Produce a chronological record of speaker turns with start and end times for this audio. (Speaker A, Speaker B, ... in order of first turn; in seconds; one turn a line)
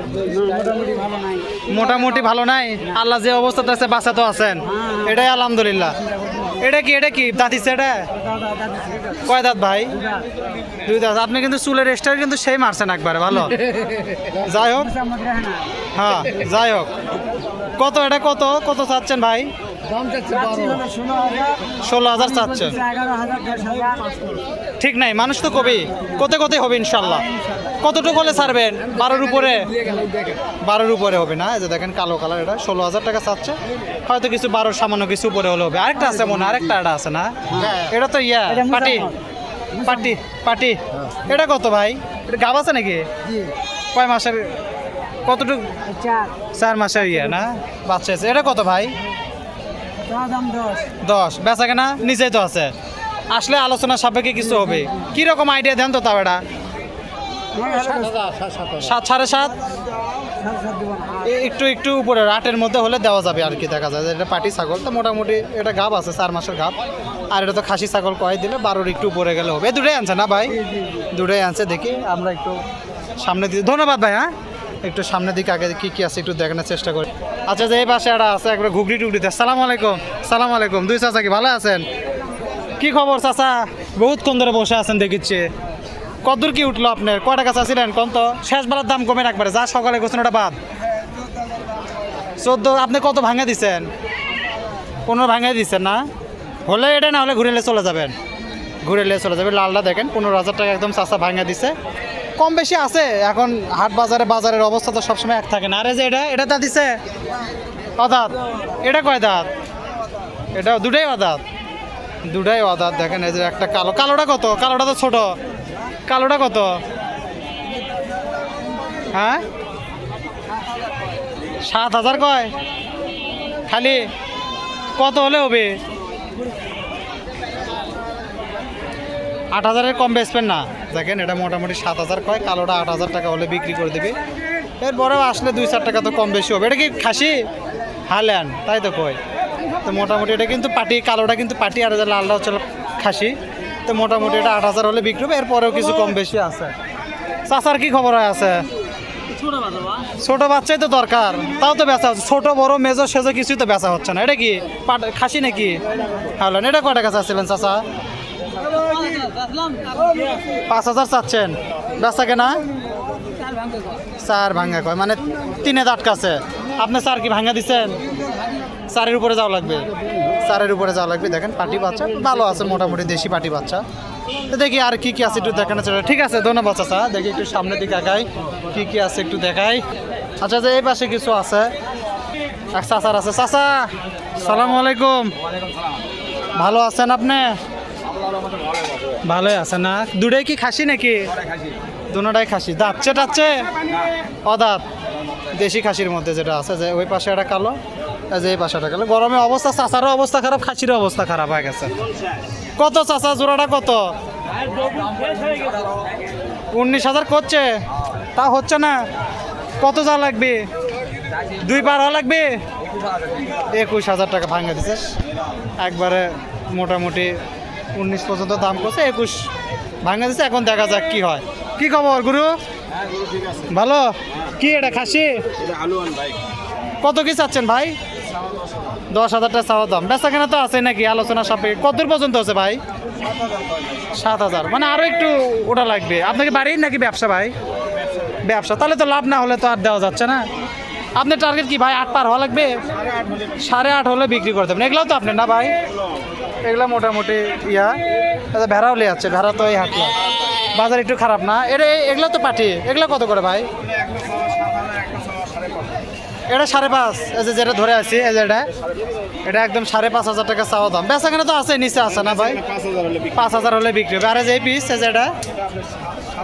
Speaker A: 0.2-1.6
Speaker B: 1.7-8.1
Speaker A: 8.4-9.1
Speaker B: 9.3-10.0
Speaker B: 10.8-13.6
Speaker B: 14.4-15.0
Speaker A: 14.9-15.7
Speaker B: 15.9-16.9
Speaker B: 17.8-19.5
Speaker A: 19.9-21.7
Speaker B: 21.8-22.8
Speaker A: 22.4-24.4
Speaker B: 24.8-27.3
Speaker B: 27.8-29.8
Speaker A: 29.8-30.4
Speaker B: 30.6-39.1
Speaker A: 38.7-39.1
Speaker B: 39.8-43.1
Speaker B: 43.9-44.6
Speaker B: 45.3-45.8
Speaker A: 45.9-46.3
Speaker B: 46.5-49.0
Speaker A: 50.1-50.9
Speaker B: 51.0-52.7
Speaker B: 53.3-56.4
Speaker A: 57.5-58.8
Speaker B: 58.8-59.6
Speaker A: 60.4-61.2
Speaker B: 61.2-66.8
Speaker B: 67.3-70.6
Speaker B: 71.1-72.6
Speaker B: 73.2-74.3
Speaker B: 74.8-81.9
Speaker B: 82.8-85.5
Speaker B: 86.2-90.6
Speaker B: 92.4-93.9
Speaker B: 95.1-96.1
Speaker B: 96.7-98.1
Speaker B: 98.8-101.8
Speaker B: 102.4-107.0
Speaker B: 108.0-109.5
Speaker B: 110.5-111.4
Speaker B: 112.3-115.4
Speaker B: 116.1-116.8
Speaker B: 119.1-119.4
Speaker B: 121.7-122.5
Speaker B: 123.7-124.1
Speaker B: 125.0-125.8
Speaker B: 129.5-134.2
Speaker B: 134.8-137.5
Speaker B: 138.1-139.2
Speaker B: 139.8-143.4
Speaker B: 143.9-146.8
Speaker B: 147.5-148.7
Speaker B: 150.2-155.8
Speaker B: 156.4-157.8
Speaker A: 158.8-160.1
Speaker B: 160.7-162.6
Speaker B: 164.2-168.0
Speaker B: 168.9-169.9
Speaker B: 170.4-173.8
Speaker B: 174.5-179.8
Speaker B: 180.4-181.7
Speaker B: 182.7-185.3
Speaker B: 186.5-187.6
Speaker B: 189.2-191.3
Speaker B: 192.1-193.7
Speaker B: 194.4-194.8
Speaker B: 195.5-197.8
Speaker B: 198.3-201.9
Speaker B: 202.8-204.2
Speaker A: 204.9-205.7
Speaker B: 206.7-207.8
Speaker B: 208.4-209.1
Speaker B: 209.8-210.7
Speaker B: 211.5-212.6
Speaker B: 213.7-215.1
Speaker B: 215.8-217.4
Speaker B: 217.9-219.5
Speaker B: 220.0-222.6
Speaker B: 223.7-225.4
Speaker B: 227.0-228.0
Speaker B: 229.1-232.8
Speaker B: 234.2-237.5
Speaker B: 238.4-240.5
Speaker B: 241.2-242.8
Speaker B: 243.6-245.7
Speaker B: 246.7-250.2
Speaker B: 250.7-253.7
Speaker B: 256.5-258.7
Speaker B: 259.4-262.6
Speaker B: 263.3-265.3